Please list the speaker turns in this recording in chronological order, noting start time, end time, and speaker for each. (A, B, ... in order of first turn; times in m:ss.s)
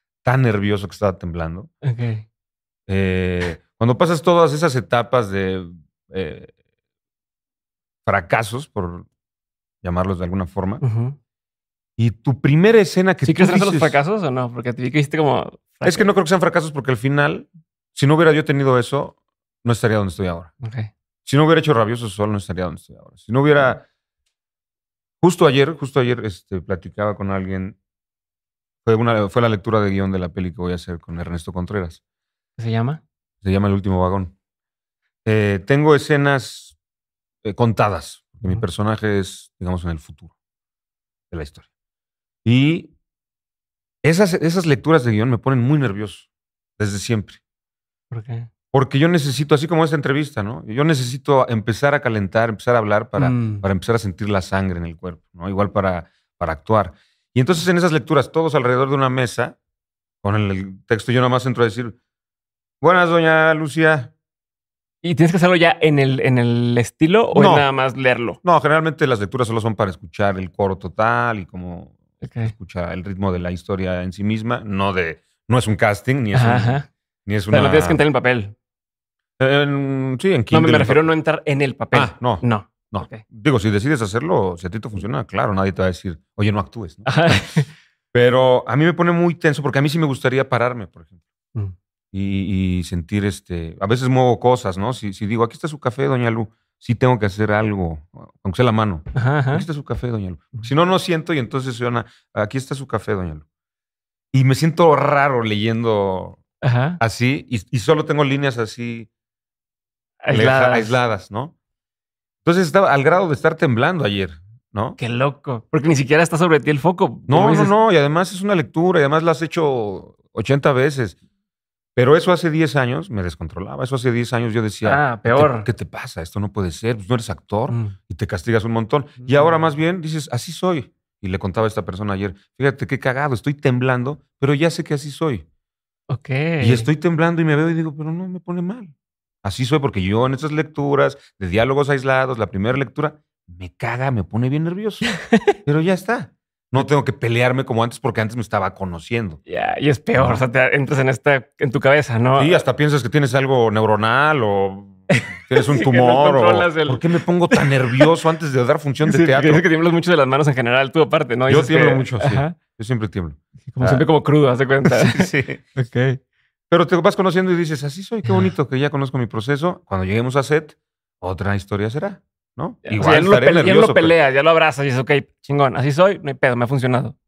0:00.2-0:01.7 A
0:01.8-0:02.2 B
0:02.9-0:06.5 A
0:08.1-0:09.1 A
0:09.8-0:10.8 A
0:10.8-0:11.2 B
0:12.0-0:14.0 A
0:13.2-0:16.1 B
0:15.8-0:20.5 A
0:20.6-0:20.9 B
0:21.2-0:23.8 A
0:25.2-0:27.8 A
0:28.8-0:32.0 A
0:32.6-0:33.0 B
0:33.4-0:34.3 A
0:35.3-0:36.7 A
0:37.4-0:40.3 A
0:41.3-0:41.6 A
0:42.4-0:42.9 A
0:44.0-0:47.4 A
0:48.1-0:48.5 B
0:48.7-0:59.6 A
0:53.2-0:53.6 B
1:00.2-1:02.0 A
1:02.8-1:04.1 A
1:05.0-1:08.4 B
1:07.3-1:07.7 A
1:08.4-1:18.0 A
1:12.2-1:12.5 B
1:16.3-1:16.9 B
1:17.5-1:18.5 B
1:19.4-1:21.0 A
1:20.5-1:23.2 B
1:21.9-1:27.6 A
1:27.1-1:27.7 B
1:28.1-1:31.1 A
1:32.1-1:43.4 A
1:39.2-1:39.7 B
1:44.3-1:46.4 A
1:46.6-1:47.0 B
1:47.0-1:49.1 A
1:50.2-1:51.0 B
1:50.3-1:51.5 A
1:52.4-1:55.0 A
1:55.0-1:57.7 B
1:57.3-2:01.2 A
2:02.0-2:15.4 A
2:04.8-2:05.7 B
2:07.7-2:08.0 B
2:09.2-2:09.6 B
2:16.1-2:16.9 B
2:16.6-2:18.9 A
2:19.4-2:25.1 A
2:25.1-2:25.5 B
2:25.6-2:29.4 A
2:29.5-2:32.5 B
2:30.2-2:30.4 A
2:32.4-2:39.6 A
2:35.8-2:38.0 B
2:39.0-2:42.6 B
2:41.5-2:44.0 A
2:43.7-2:46.2 B
2:44.8-2:45.6 A
2:46.7-2:54.2 A
2:48.2-2:48.5 B
2:52.9-2:57.2 B